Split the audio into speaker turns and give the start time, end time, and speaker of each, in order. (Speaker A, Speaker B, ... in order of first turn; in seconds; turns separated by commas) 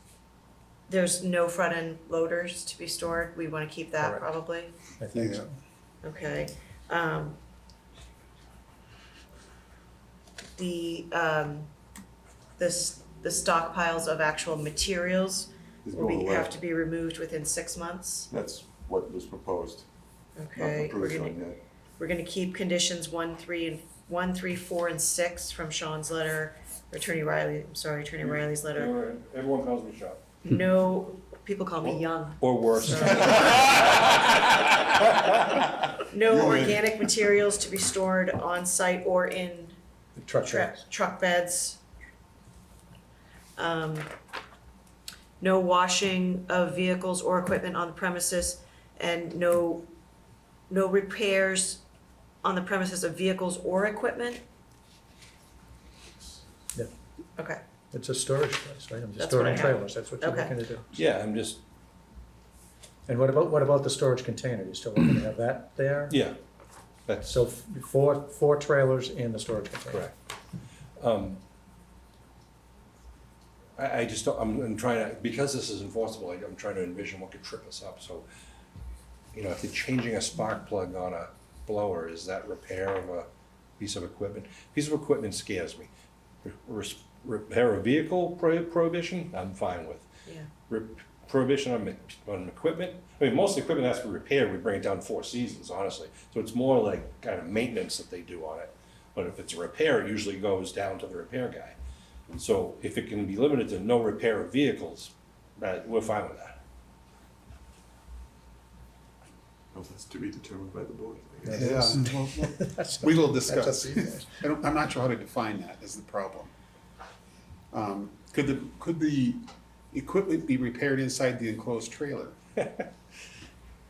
Speaker A: 0.9-4.7, Speaker B: 4.0-4.2, Speaker B: 5.0-5.5, Speaker C: 5.2-5.4, Speaker A: 6.0-7.4, Speaker A: 10.6-11.7, Speaker A: 12.6-18.3, Speaker D: 15.8-16.6, Speaker D: 18.3-19.9, Speaker A: 20.4-21.4, Speaker D: 20.6-21.6, Speaker A: 22.0-28.9, Speaker E: 28.2-30.2, Speaker A: 30.4-33.7, Speaker E: 32.4-34.3, Speaker A: 36.1-39.8, Speaker C: 36.3-36.7, Speaker B: 40.2-40.8, Speaker A: 40.4-41.8, Speaker A: 43.6-44.1, Speaker A: 45.4-49.9, Speaker A: 50.7-51.8, Speaker A: 52.4-54.4, Speaker B: 57.9-60.9, Speaker A: 59.2-60.5, Speaker E: 60.9-61.6, Speaker B: 63.1-66.2, Speaker E: 66.1-66.4, Speaker E: 67.1-67.4, Speaker B: 67.3-70.1, Speaker E: 71.0-71.4, Speaker E: 73.8-78.3, Speaker E: 79.3-83.3, Speaker E: 83.8-85.9, Speaker E: 86.4-90.1, Speaker E: 90.7-101.8, Speaker E: 102.3-106.6, Speaker D: 109.7-111.7, Speaker B: 111.5-114.4, Speaker C: 111.5-116.5, Speaker C: 117.7-119.4, Speaker C: 119.9-122.3